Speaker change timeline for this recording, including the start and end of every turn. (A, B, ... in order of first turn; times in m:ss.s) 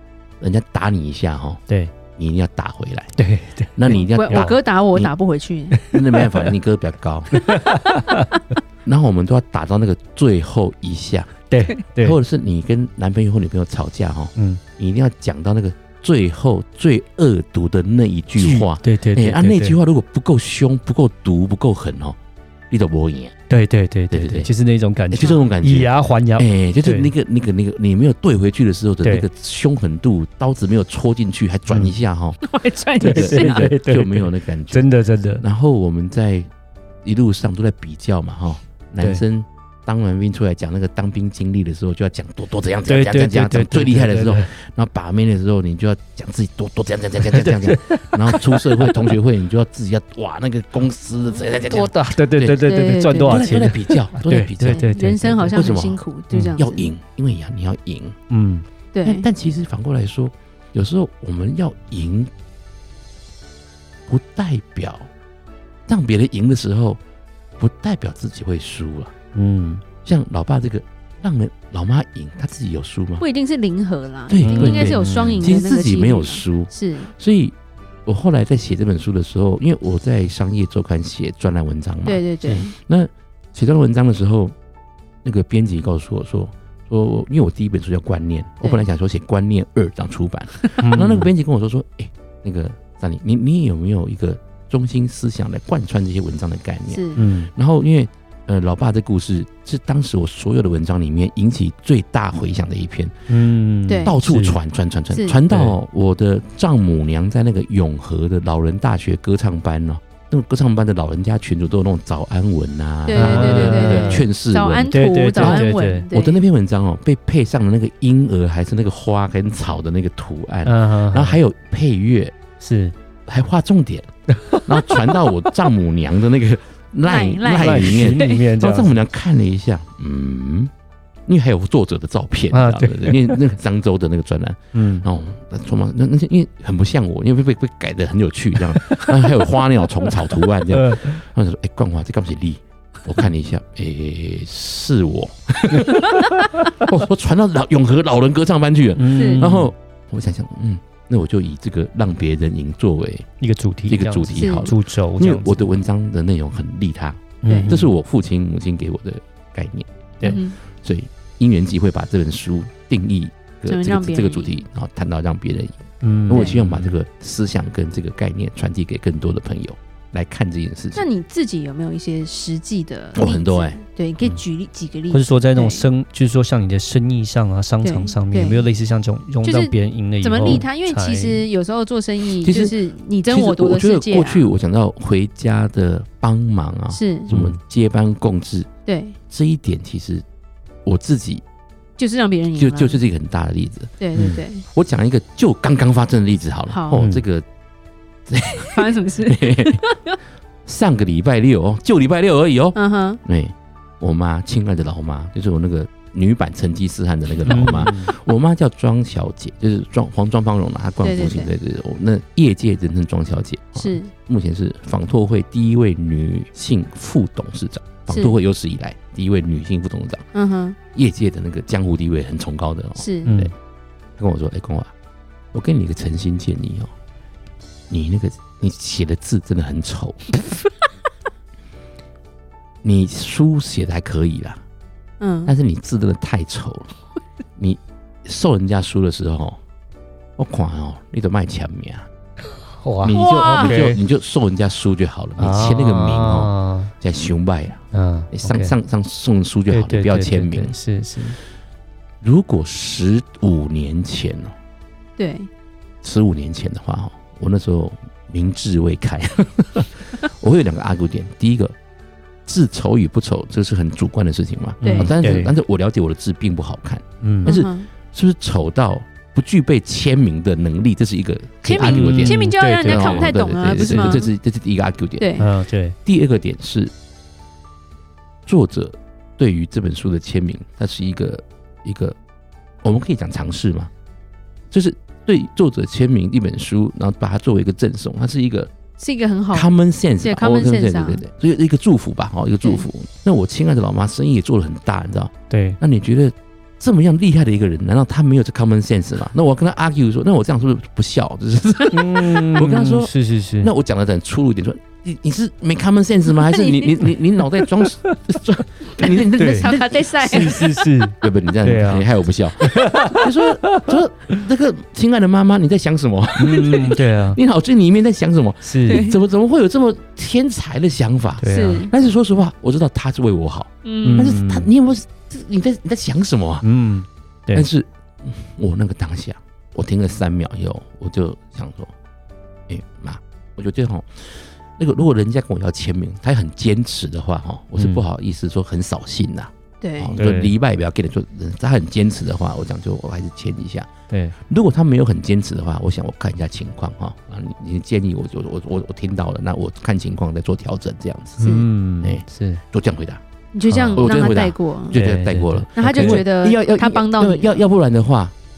0:00.4-0:01.6 A
0:02.2-0:03.2 A
0:03.2-0:04.5 B
0:03.8-0:05.1 A
0:03.9-0:05.8 C
0:05.7-0:06.5 B
0:05.9-0:07.4 A
0:07.3-0:08.3 B
0:08.8-0:11.4 A
0:11.5-0:12.2 B
0:12.0-0:22.2 A
0:14.4-0:14.6 B
0:18.4-0:19.8 B
0:22.7-0:23.4 A
0:23.5-0:27.1 B
0:24.1-0:24.5 A
0:25.1-0:32.4 A
0:25.2-0:25.4 C
0:29.0-0:29.3 B
0:31.7-0:31.9 B
0:32.4-0:33.7 C
0:33.0-0:35.4 B
0:33.0-0:36.5 A
0:37.0-0:58.2 A
0:42.9-0:44.5 B
0:47.3-0:49.0 B
0:51.7-0:55.6 B
0:52.6-0:53.7 C
0:54.6-0:56.9 C
0:58.3-0:58.7 B
0:58.9-0:59.2 C
0:59.0-1:02.3 A
1:04.1-1:05.1 A
1:05.9-1:07.0 A
1:07.6-1:09.1 A
1:09.3-1:09.8 B
1:10.0-1:13.2 A
1:13.2-1:17.1 C
1:14.3-1:24.5 A
1:14.4-1:15.4 B
1:22.0-1:22.8 C
1:25.2-1:43.2 A
1:30.8-1:31.3 B
1:36.9-1:37.2 C
1:37.2-1:37.5 B
1:43.3-1:44.6 B
1:43.9-1:44.2 C
1:44.0-2:02.4 A
1:45.1-1:45.4 C
1:45.5-1:45.8 B
1:53.1-1:56.4 C
1:53.1-1:54.3 B
1:54.9-1:56.1 B
2:00.7-2:01.4 B
2:02.6-2:03.0 B
2:03.3-2:10.7 A
2:04.3-2:05.0 B
2:07.1-2:08.4 C
2:07.6-2:09.0 B
2:11.3-2:33.3 A
2:12.5-2:13.4 B
2:14.7-2:15.1 B
2:18.8-2:19.3 B
2:20.7-2:21.2 B
2:26.0-2:26.7 B
2:29.0-2:29.7 B
2:29.1-2:29.5 C
2:33.4-2:35.7 B
2:33.9-2:51.0 A
2:34.3-2:34.7 C
2:37.4-2:37.9 B
2:37.4-2:37.7 C
2:40.2-2:40.6 C
2:43.7-2:44.5 C
2:46.0-2:47.0 B
2:46.3-2:46.6 C
2:51.0-2:55.9 C
2:53.2-2:53.8 A
2:55.1-3:01.5 B
2:57.8-2:58.7 C
2:59.4-3:04.5 C
3:02.4-3:02.8 A
3:03.3-3:08.7 A
3:06.9-3:07.3 C
3:07.3-3:07.6 B
3:08.9-3:09.2 C
3:09.3-3:10.2 A
3:10.8-3:11.4 A
3:12.0-3:13.0 C
3:12.6-3:17.4 A
3:14.0-3:14.6 C
3:16.7-3:17.0 C
3:17.0-3:17.2 B
3:18.3-3:19.8 A
3:18.7-3:20.2 C
3:20.7-3:40.3 A
3:22.8-3:23.2 C
3:27.5-3:28.1 B
3:31.0-3:31.5 C
3:33.8-3:34.1 C
3:38.1-3:38.4 C
3:40.3-3:40.8 C
3:40.9-3:43.5 A
3:43.0-3:43.3 C
3:43.3-3:43.5 B
3:44.2-3:44.9 A
3:45.5-3:46.9 A
3:47.9-3:50.4 A
3:52.8-3:54.6 A
3:55.2-3:55.5 C
3:55.5-3:56.9 A
3:57.6-3:59.6 A
4:00.4-4:02.1 A
4:02.7-4:04.0 B
4:03.0-4:10.8 A
4:03.1-4:03.8 C
4:05.4-4:06.9 B
4:07.9-4:08.8 B
4:09.7-4:11.4 B
4:12.2-4:14.5 A
4:15.2-4:15.5 C
4:16.0-4:21.7 A
4:22.5-4:35.4 A
4:24.8-4:25.6 B
4:24.8-4:25.1 C
4:27.2-4:27.6 B
4:27.4-4:27.9 C
4:31.6-4:34.3 C
4:31.8-4:34.2 B
4:35.2-4:35.5 C
4:35.4-4:36.0 B
4:36.0-4:36.9 A
4:38.5-4:42.2 A
4:42.8-4:43.9 A
4:44.7-4:48.7 A
4:49.0-4:51.2 C
4:49.5-5:10.4 A
4:55.5-4:55.8 B
5:01.9-5:03.7 B
5:06.5-5:07.0 C
5:07.7-5:08.1 B
5:09.0-5:11.0 C
5:09.4-5:12.1 B
5:11.2-5:26.7 A
5:12.6-5:14.0 B
5:16.4-5:17.4 B
5:18.6-5:19.1 B
5:18.9-5:19.2 C
5:21.4-5:21.9 B
5:21.5-5:21.9 C
5:23.8-5:24.3 C
5:24.0-5:24.7 B
5:26.6-5:27.7 B
5:27.5-5:31.9 A
5:32.7-5:43.9 A
5:37.8-5:38.0 B
5:39.8-5:40.2 C
5:40.2-5:40.6 B
5:44.4-5:51.5 A
5:51.4-5:52.6 B
5:51.4-5:51.7 C
5:52.0-5:53.2 A
5:53.5-5:55.0 C
5:53.7-5:54.2 B
5:53.9-5:58.3 A
5:54.9-5:56.9 B
5:55.8-5:57.6 C